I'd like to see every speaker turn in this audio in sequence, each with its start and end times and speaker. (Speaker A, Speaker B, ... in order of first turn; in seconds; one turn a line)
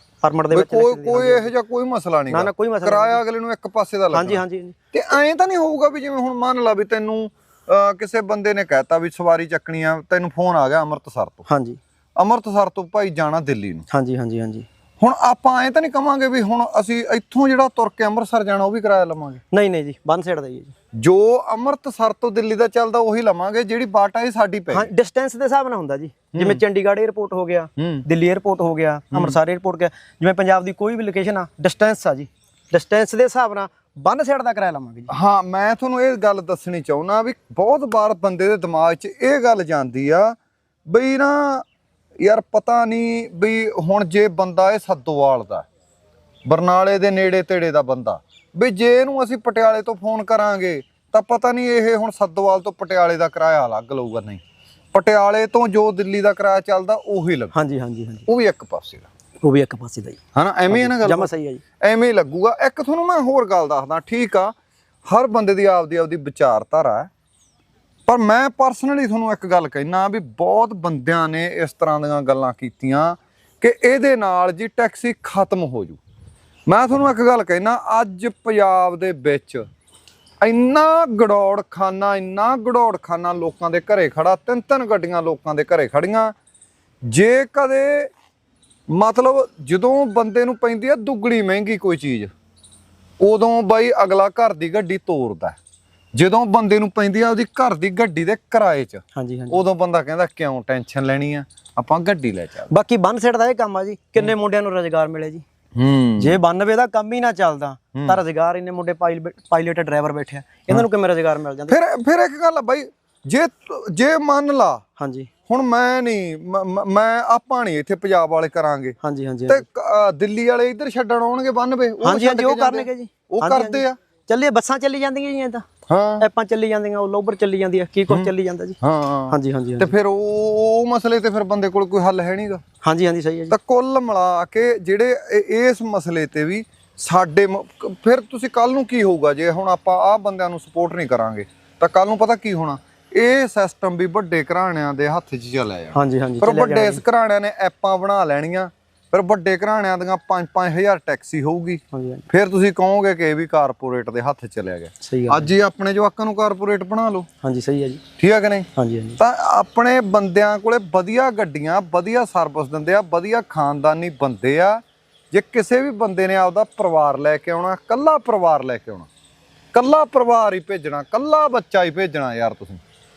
Speaker A: 0.2-1.5
Speaker B: 0.5-11.4
Speaker A: 2.3-3.2
Speaker A: 4.1-4.8
Speaker A: 11.5-11.8
Speaker B: 12.2-13.8
Speaker A: 13.9-14.7
Speaker B: 15.0-19.4
Speaker A: 19.5-20.7
Speaker B: 20.9-24.9
Speaker A: 24.7-35.1
Speaker B: 26.3-26.6
Speaker B: 27.8-28.0
Speaker B: 35.1-40.4
Speaker B: 40.9-41.6
Speaker B: 42.2-45.7
Speaker B: 46.5-54.4
Speaker B: 54.9-57.5
Speaker A: 57.5-58.3
Speaker B: 58.3-59.1
Speaker A: 59.4-61.6
Speaker B: 60.3-61.3
Speaker B: 61.8-64.5
Speaker B: 65.1-67.1
Speaker B: 68.1-76.0
Speaker B: 76.7-79.6
Speaker B: 80.4-86.3
Speaker B: 87.1-88.1
Speaker B: 88.9-92.3
Speaker B: 93.2-95.6
Speaker B: 96.1-102.7
Speaker A: 99.1-99.6
Speaker A: 102.7-105.4
Speaker B: 105.8-106.4
Speaker A: 106.2-111.7
Speaker B: 107.9-108.2
Speaker B: 111.7-114.8
Speaker A: 115.0-115.3
Speaker B: 115.5-119.0
Speaker A: 119.0-119.6
Speaker B: 119.5-124.0
Speaker A: 122.0-125.6
Speaker B: 125.9-126.2
Speaker A: 126.2-128.8
Speaker B: 128.8-132.6
Speaker A: 129.3-129.9
Speaker A: 132.8-133.5
Speaker B: 133.5-157.3
Speaker A: 145.9-147.0
Speaker A: 151.9-152.2
Speaker A: 155.0-155.5
Speaker A: 157.4-158.0
Speaker B: 158.2-169.1
Speaker A: 158.8-159.2
Speaker B: 169.7-172.8